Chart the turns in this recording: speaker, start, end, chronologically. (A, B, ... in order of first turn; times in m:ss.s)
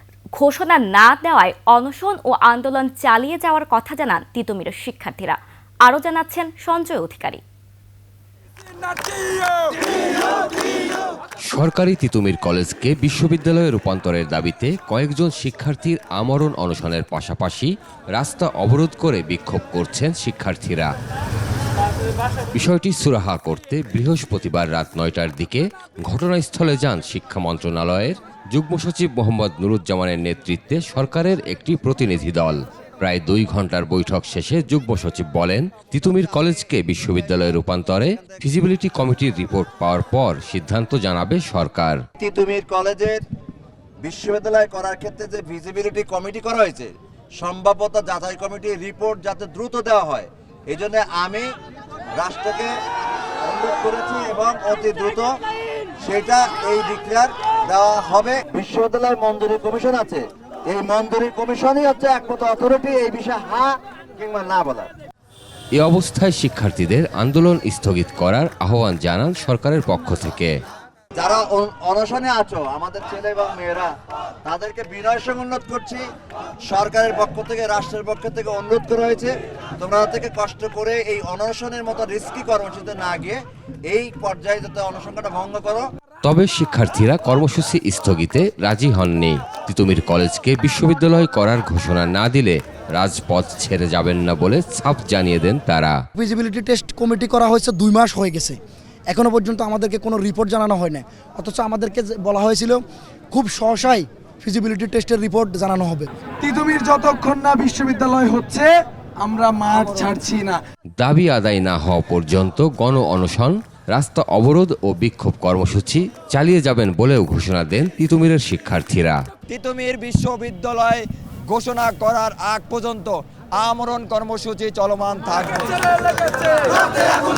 0:00.4-0:07.4 A
0:11.5-0:20.9 B
0:22.5-0:42.0 B
0:42.2-0:43.2 C
0:44.0-0:51.5 C
0:52.2-0:52.7 C
0:53.4-0:55.3 C
0:56.0-1:04.9 C
1:05.8-1:10.5 B
1:11.2-1:13.9 C
1:14.4-1:16.0 C
1:16.7-1:25.9 C
1:26.2-1:36.0 B
1:36.2-1:46.1 D
1:46.4-1:50.6 E
1:51.0-1:59.2 B
1:59.5-2:06.5 F